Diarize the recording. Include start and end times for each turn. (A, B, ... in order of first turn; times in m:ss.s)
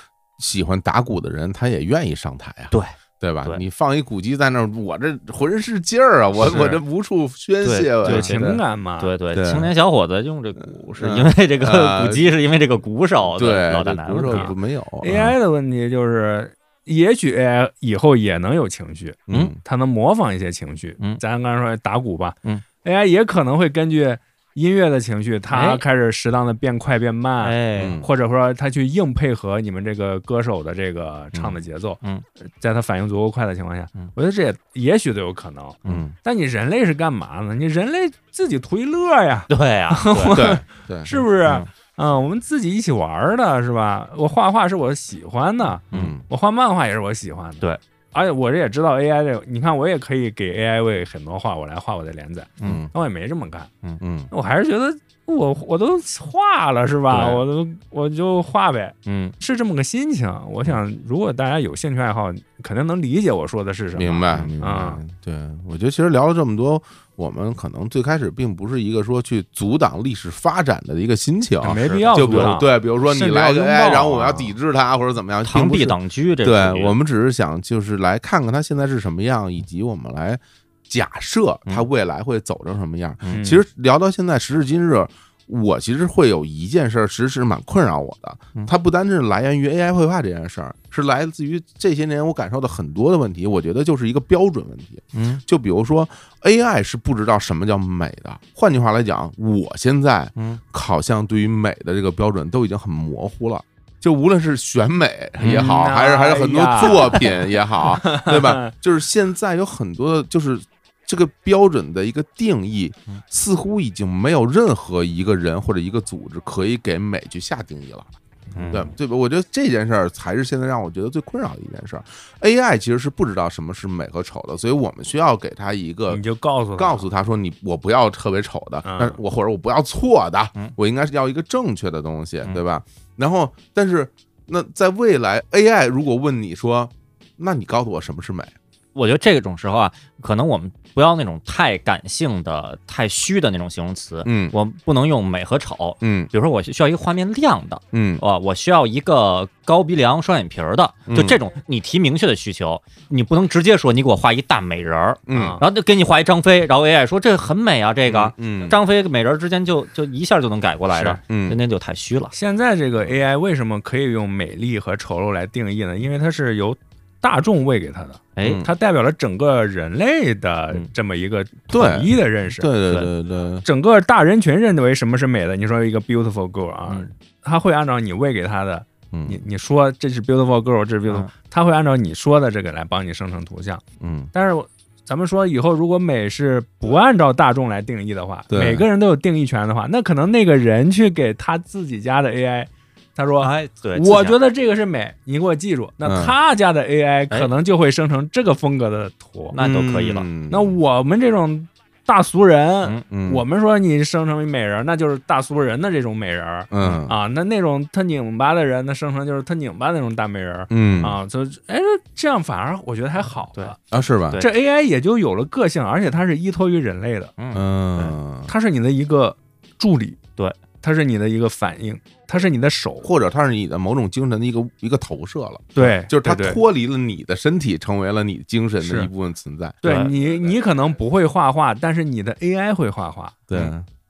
0:00.4-0:08.6 A
0:02.7-0:03.6 B
0:06.5-0:06.7 B
0:07.6-0:14.5 B
0:08.0-0:09.1 C
0:09.3-0:09.7 A
0:11.0-0:12.3 A
0:13.3-0:15.3 A
0:15.0-0:53.7 C
0:19.3-0:19.6 A
0:25.5-0:25.8 B
0:27.4-0:28.0 B
0:27.8-0:28.1 A
0:35.8-0:36.1 A
0:39.5-0:40.6 B
0:40.3-0:41.2 A
0:45.9-0:46.2 A
0:52.6-0:52.9 A
0:54.0-0:54.3 A
0:54.3-1:05.0 C
0:57.1-0:57.4 B
0:59.0-0:59.3 B
1:04.0-1:58.1 A
1:11.6-1:14.5 C
1:11.8-1:12.6 B
1:15.4-1:16.9 B
1:23.3-1:23.6 C
1:35.1-1:35.4 B
1:45.4-1:47.2 C
1:47.8-1:48.7 C
1:58.6-1:58.9 B
1:58.7-2:06.2 A
2:06.1-2:07.0 C
2:06.8-2:18.5 A
2:08.8-2:09.2 C
2:18.9-2:42.3 B
2:24.2-2:24.5 A
2:26.0-2:26.3 A
2:27.9-2:28.2 A
2:31.1-2:31.4 A
2:35.3-2:35.6 A
2:35.3-2:35.6 C
2:38.0-2:38.8 A
2:41.3-2:41.6 A
2:42.3-2:52.7 C
2:48.4-2:48.6 B
2:48.4-2:48.7 A
2:51.7-2:53.6 A
2:53.6-3:03.8 C
2:59.1-2:59.4 A
3:04.0-3:04.3 A
3:04.3-3:19.6 C
3:08.5-3:08.8 A
3:13.4-3:14.4 B
3:16.0-3:16.3 A
3:19.5-3:20.3 B
3:19.6-3:20.7 A
3:20.5-3:33.8 C
3:23.1-3:23.4 A
3:26.7-3:27.1 A
3:30.7-3:31.2 A
3:33.9-3:34.4 A
3:34.4-3:37.3 C
3:37.4-3:38.2 B
3:37.5-3:38.5 A
3:38.5-3:40.2 C
3:40.8-3:43.1 C
3:43.0-3:49.8 A
3:45.8-3:46.6 C
3:48.8-3:49.1 C
3:49.8-3:50.1 B
3:49.8-3:53.4 C
3:53.5-3:53.9 A